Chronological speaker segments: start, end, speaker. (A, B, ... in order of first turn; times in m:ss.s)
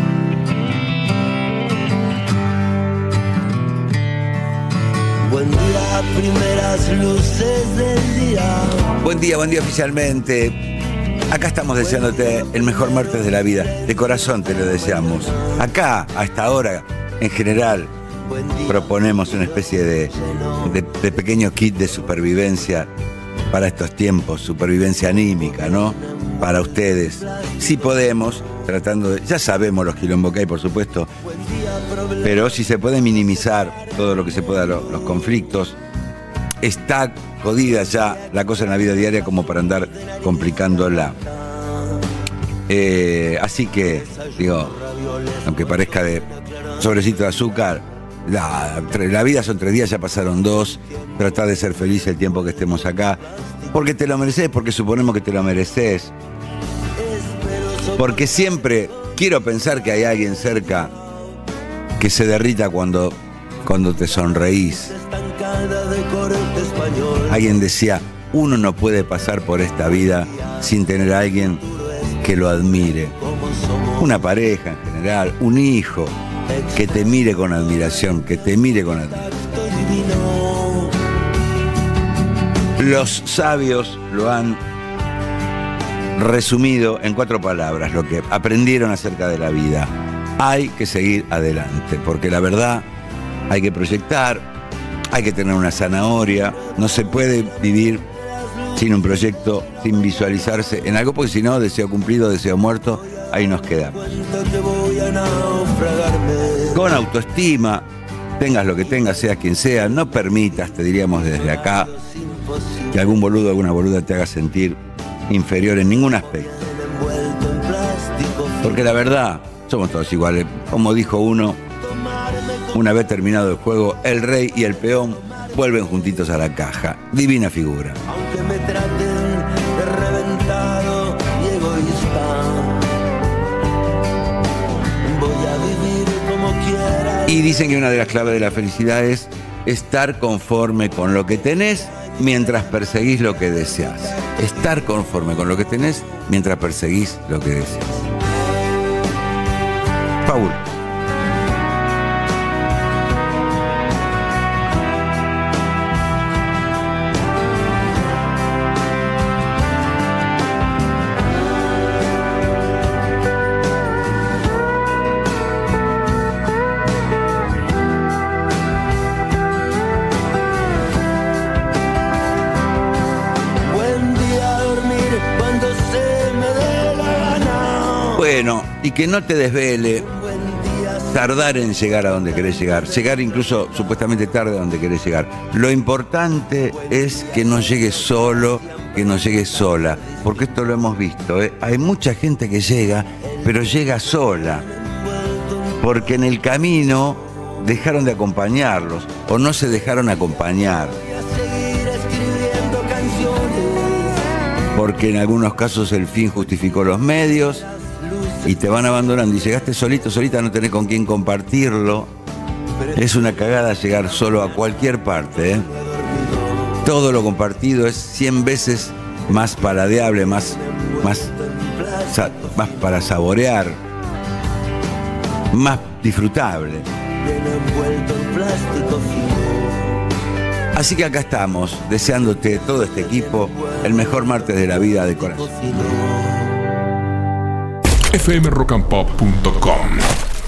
0:05.2-0:08.9 A
0:08.9-0:10.6 B
0:11.3-0:17.9 B
0:18.6-0:22.9 B
0:23.5-0:31.1 B
0:31.5-0:32.2 A
0:32.2-0:35.8 B
0:36.6-0:41.2 B
0:42.7-0:44.8 B
0:45.4-0:56.1 B
0:57.0-0:58.0 A
0:57.9-1:01.0 B
1:02.0-1:05.0 B
1:05.0-1:07.2 A
1:07.2-1:13.2 B
1:13.3-1:13.9 A
1:14.0-1:16.1 B
1:16.7-1:19.4 B
1:19.3-1:20.9 A
1:22.8-1:24.6 B
1:26.1-1:32.8 B
1:33.5-1:34.4 B
1:35.1-1:38.1 B
1:38.7-1:44.2 B
1:44.1-1:46.7 A
1:46.7-1:47.9 B
1:48.4-1:52.0 B
1:52.4-1:52.7 A
1:52.9-1:56.7 B
1:56.6-1:58.6 A
1:58.6-2:01.6 B
2:02.2-2:02.6 A
2:02.7-2:08.0 B
2:08.1-2:12.9 A
2:15.0-2:17.2 A
2:17.2-2:27.9 B
2:30.2-2:30.6 B
2:53.6-2:58.1 A
2:58.1-3:00.1 B
3:00.3-3:00.9 A
3:00.9-3:14.7 B
3:15.8-3:21.0 B
3:21.2-3:24.3 A
3:24.7-3:27.7 B
3:28.4-3:32.1 B
3:32.9-3:35.7 B
3:36.8-3:41.3 B
3:41.4-3:42.0 A
3:42.0-3:43.8 B
3:45.5-3:46.9 B
3:47.2-3:49.9 A
3:50.7-3:55.6 B
3:55.6-3:56.4 A
3:58.1-4:00.1 C